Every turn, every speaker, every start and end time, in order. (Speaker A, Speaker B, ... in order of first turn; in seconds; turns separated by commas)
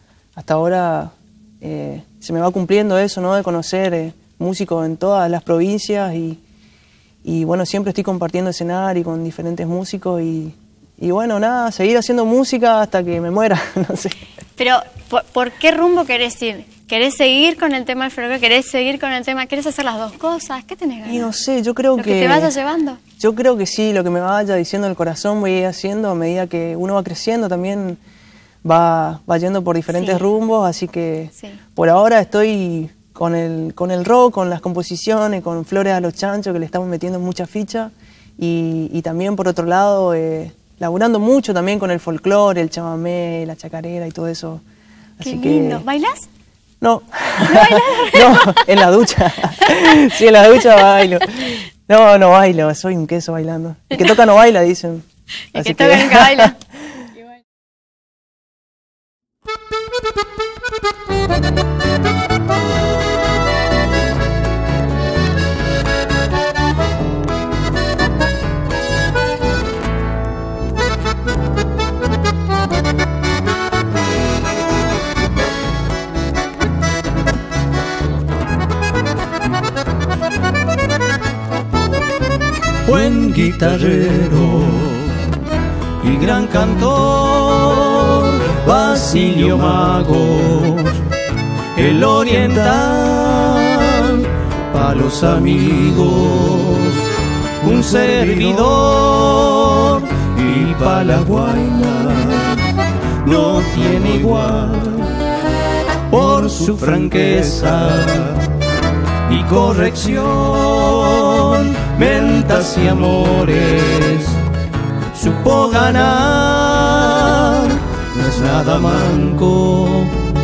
Speaker A: 0.3-6.4, Speaker A: 7.2-14.2, Speaker B: 14.6-21.3, Speaker A: 21.1-22.5, Speaker B: 21.9-23.0, Speaker A: 23.2-28.0, Speaker A: 28.6-44.6, Speaker B: 29.9-30.2, Speaker B: 31.3-31.6, Speaker A: 45.2-45.8, Speaker B: 45.2-46.3, Speaker A: 46.8-55.0, Speaker B: 47.4-48.6, Speaker B: 55.5-56.6, Speaker A: 55.5-56.5, Speaker C: 82.8-85.3, Speaker C: 86.0-91.1, Speaker C: 91.7-105.2, Speaker C: 106.1-108.5, Speaker C: 109.2-114.4, Speaker C: 115.1-120.2